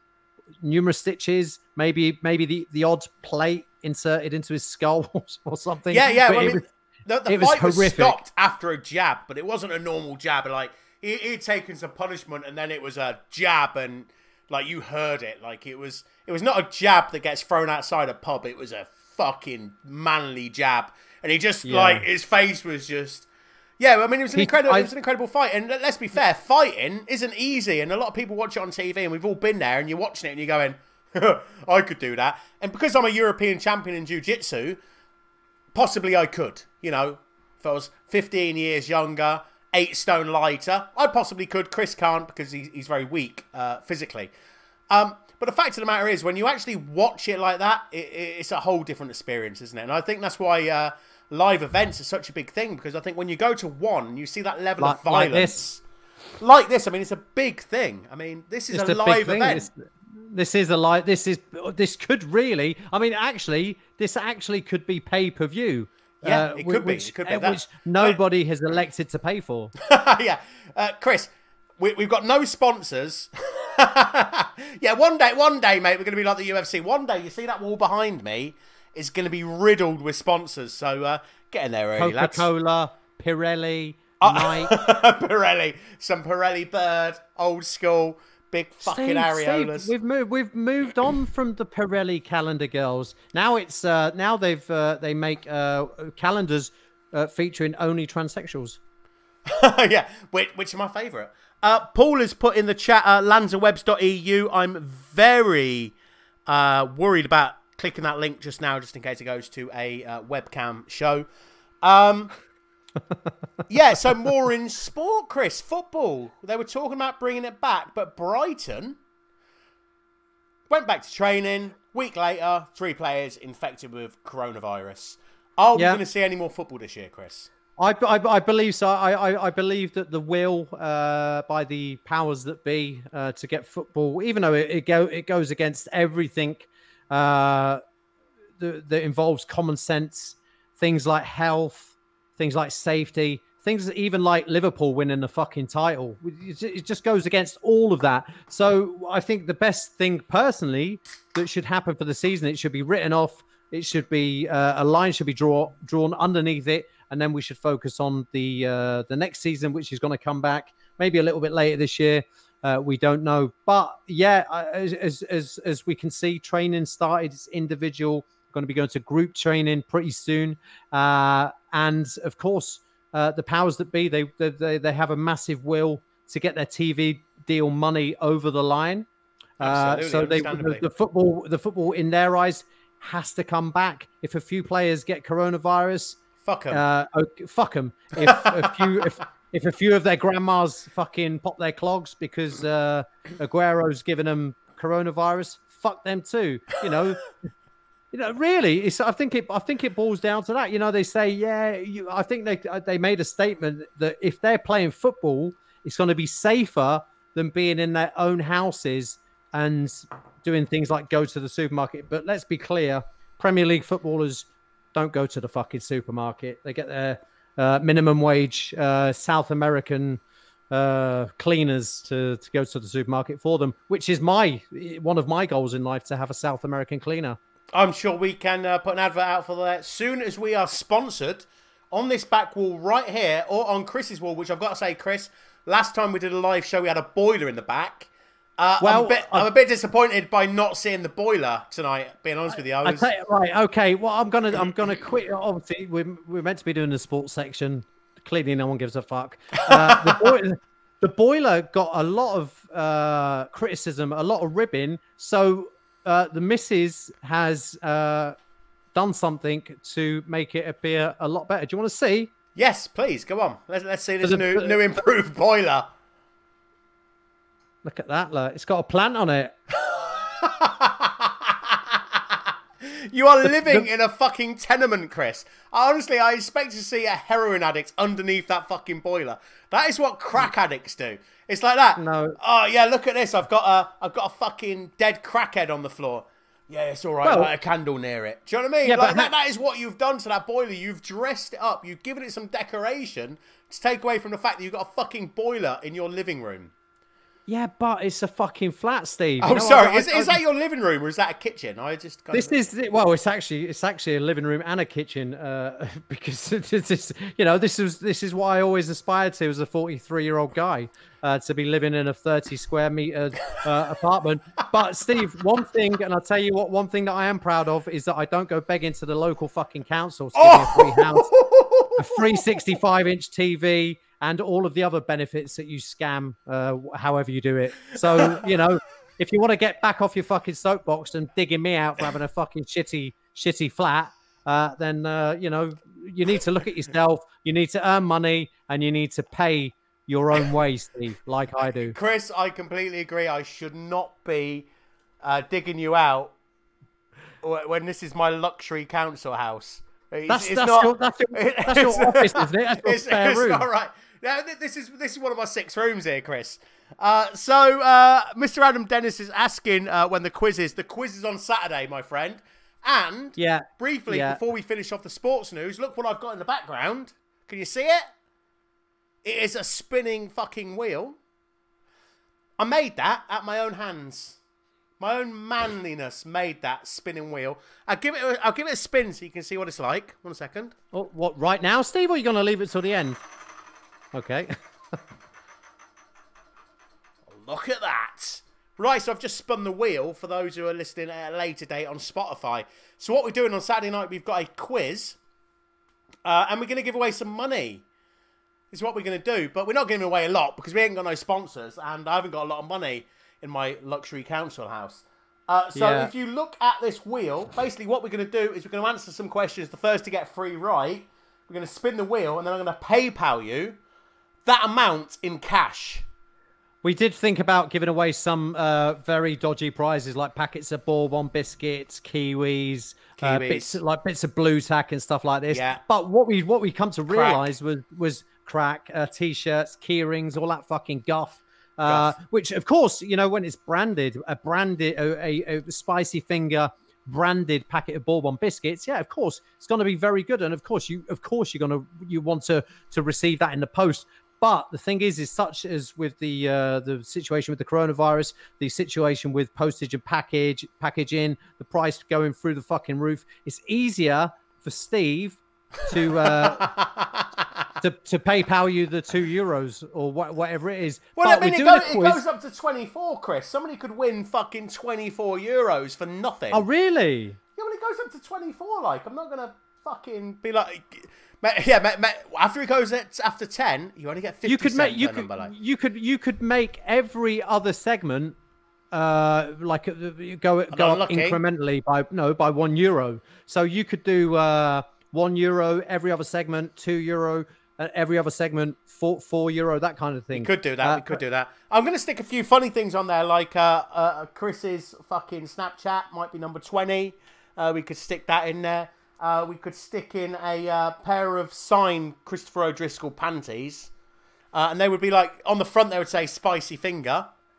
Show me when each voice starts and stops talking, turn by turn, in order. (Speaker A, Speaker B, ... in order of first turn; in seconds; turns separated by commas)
Speaker A: 0.6-6.6, Speaker B: 5.9-23.3, Speaker A: 7.3-8.2, Speaker A: 21.6-22.1, Speaker B: 23.8-34.8, Speaker A: 24.3-24.9, Speaker B: 35.7-44.3, Speaker B: 44.9-55.8, Speaker A: 54.8-55.6, Speaker B: 56.4-59.7, Speaker A: 58.7-69.7, Speaker B: 66.2-68.2, Speaker B: 69.8-82.5, Speaker A: 82.0-84.8, Speaker B: 84.2-89.9, Speaker A: 88.8-98.8, Speaker B: 99.5-106.0, Speaker B: 106.5-111.2, Speaker B: 111.8-112.3, Speaker B: 113.7-119.0, Speaker B: 120.7-127.5, Speaker A: 125.8-126.0, Speaker A: 127.8-137.8, Speaker A: 138.6-179.1, Speaker B: 179.6-180.8, Speaker A: 179.6-197.2, Speaker B: 186.4-186.8, Speaker B: 188.2-188.9, Speaker A: 198.1-227.4, Speaker B: 227.7-243.1, Speaker A: 238.8-239.5, Speaker A: 242.8-258.3, Speaker B: 249.7-250.4, Speaker A: 258.9-262.3, Speaker B: 262.5-265.9, Speaker A: 264.2-264.8, Speaker A: 267.8-269.5, Speaker B: 269.8-296.7, Speaker A: 282.0-282.4, Speaker A: 287.2-287.5, Speaker A: 288.8-289.3, Speaker A: 297.5-300.4, Speaker B: 299.4-302.6, Speaker A: 302.3-321.3, Speaker B: 320.4-322.5, Speaker A: 322.0-342.0, Speaker B: 328.2-328.5, Speaker B: 341.8-344.7, Speaker B: 345.2-346.3, Speaker B: 347.4-368.1, Speaker A: 350.3-353.6, Speaker A: 363.4-364.4, Speaker B: 369.2-371.2, Speaker B: 372.6-374.4, Speaker B: 375.0-380.7, Speaker A: 380.9-383.2, Speaker A: 384.1-384.6, Speaker B: 387.3-395.2, Speaker B: 396.2-397.8, Speaker B: 398.7-413.8, Speaker A: 405.7-406.1, Speaker B: 414.4-416.1, Speaker A: 416.8-456.7, Speaker B: 423.2-423.8, Speaker B: 425.5-425.8, Speaker B: 427.1-427.5, Speaker B: 431.9-432.1, Speaker B: 456.1-457.6, Speaker A: 457.8-462.2, Speaker B: 461.2-466.6, Speaker A: 466.5-467.4, Speaker B: 467.6-475.5, Speaker A: 474.4-478.4, Speaker A: 478.9-491.2, Speaker B: 480.7-481.4, Speaker B: 490.3-503.9, Speaker B: 504.5-507.3